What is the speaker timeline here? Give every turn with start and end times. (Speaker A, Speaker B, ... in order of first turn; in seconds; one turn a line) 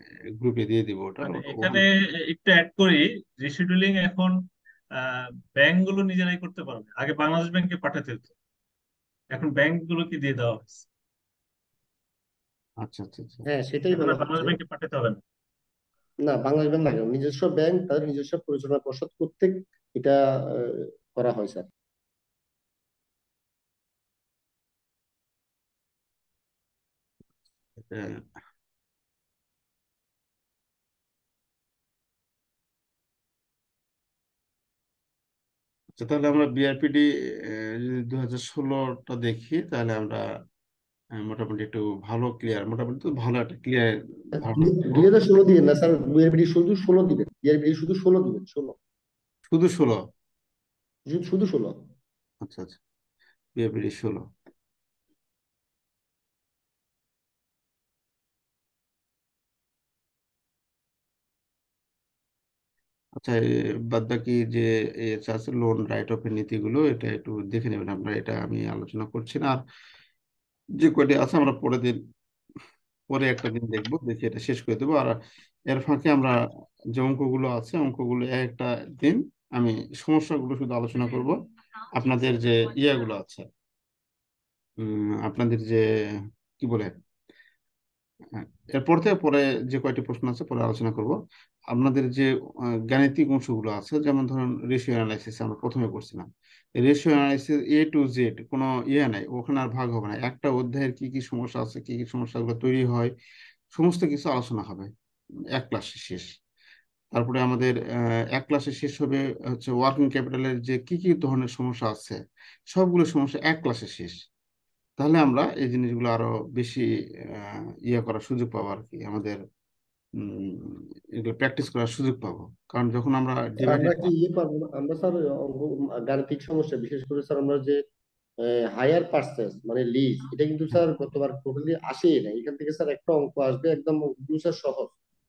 Speaker A: 0.4-1.8
Speaker B: 1.2-4.3
Speaker B: 5.0-8.3
Speaker B: 9.3-10.8
Speaker A: 12.8-13.5
Speaker C: 13.5-14.6
Speaker B: 13.9-15.2
Speaker C: 16.2-21.7
Speaker A: 27.8-28.2
Speaker A: 36.0-37.0
Speaker A: 37.8-40.2
Speaker A: 41.2-45.1
Speaker C: 44.4-48.8
Speaker A: 49.5-50.0
Speaker C: 51.1-51.8
Speaker A: 52.4-52.8
Speaker A: 53.6-54.2
Speaker A: 63.9-69.6
Speaker A: 70.8-72.0
Speaker A: 73.1-75.2
Speaker A: 75.7-76.3
Speaker A: 77.0-81.4
Speaker A: 82.0-83.5
Speaker A: 84.8-85.8
Speaker A: 86.6-86.9
Speaker A: 88.3-91.2
Speaker A: 91.7-92.3
Speaker A: 92.9-96.3
Speaker A: 96.8-103.1
Speaker A: 103.8-104.9
Speaker A: 105.5-106.3
Speaker A: 107.1-107.8
Speaker A: 108.3-112.2
Speaker A: 112.7-114.1
Speaker A: 115.0-116.8
Speaker A: 117.9-119.4
Speaker A: 120.2-124.1
Speaker C: 123.6-127.8
Speaker C: 128.8-135.0